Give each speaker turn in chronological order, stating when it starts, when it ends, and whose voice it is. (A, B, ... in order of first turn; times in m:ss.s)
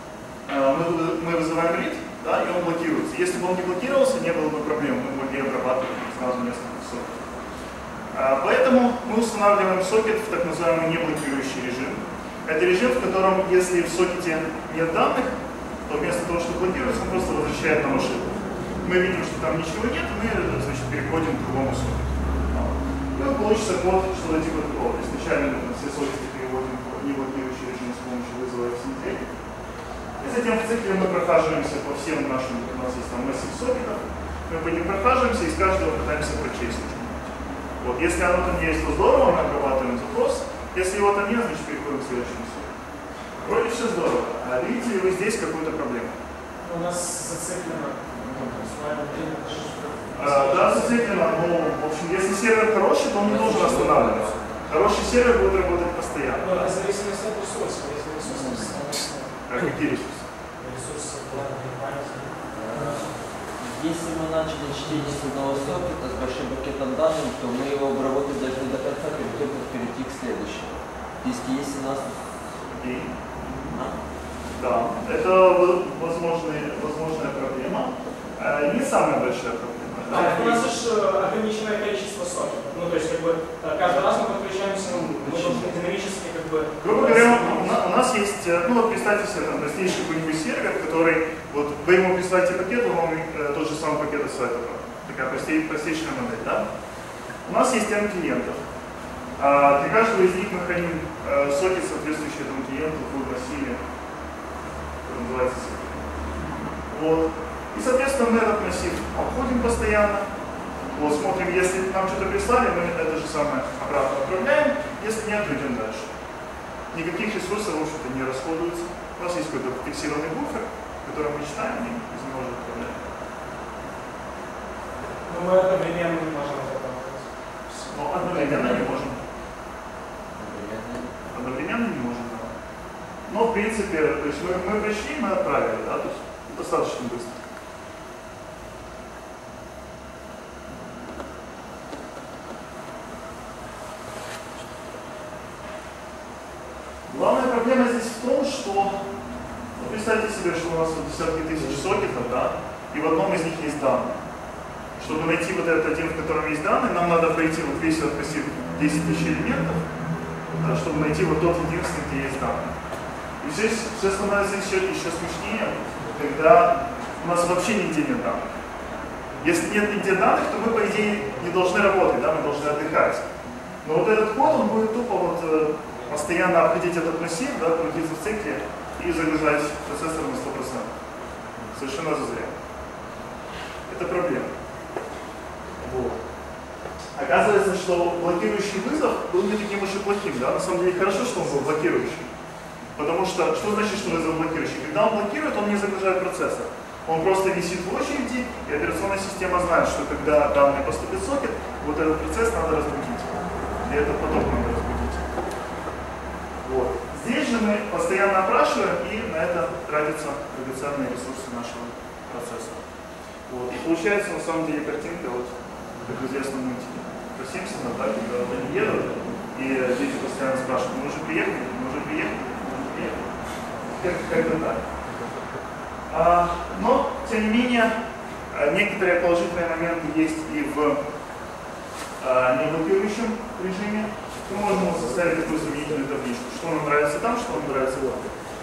0:00.5-0:07.2 A
0:08.1-0:15.3 A
0:15.9-0:29.3 A
0:30.2-0:42.7 A
0:43.4-0:46.2 A
0:46.6-0:51.2 B
0:48.2-0:48.7 C
0:50.1-0:56.7 A
0:53.2-0:54.7 C
0:56.4-0:59.3 B
0:58.3-0:58.8 C
0:59.5-1:00.3 A
1:00.6-1:03.0 B
1:02.5-1:12.3 C
1:12.7-1:13.8 A
1:14.6-1:20.7 A
1:20.1-1:27.8 B
1:26.8-1:36.7 A
1:37.4-1:38.6 A
1:39.4-1:43.8 A
1:45.0-1:46.0 A
1:46.9-1:50.3 A
1:50.9-1:56.1 A
1:56.9-2:03.0 A
2:05.2-2:07.3 B
2:07.9-2:09.2 A
2:10.3-2:11.1 C
2:11.3-2:12.5 A
2:13.3-2:17.4 A
2:27.1-2:29.0 A
2:29.8-2:34.2 A
2:35.0-2:39.9 A
2:40.5-2:42.8 A
2:43.4-2:48.4 A
2:49.4-2:53.3 A
2:53.8-3:00.9 A
3:01.7-3:02.5 A
3:03.9-3:04.5 A
3:05.8-3:06.2 A
3:07.2-3:12.3 A
3:13.0-3:25.3 A
3:26.6-3:32.8 A
3:33.5-3:43.4 A
3:43.9-3:44.8 A
3:46.1-3:48.0 A
3:48.5-3:51.0 A
3:52.2-3:58.3 A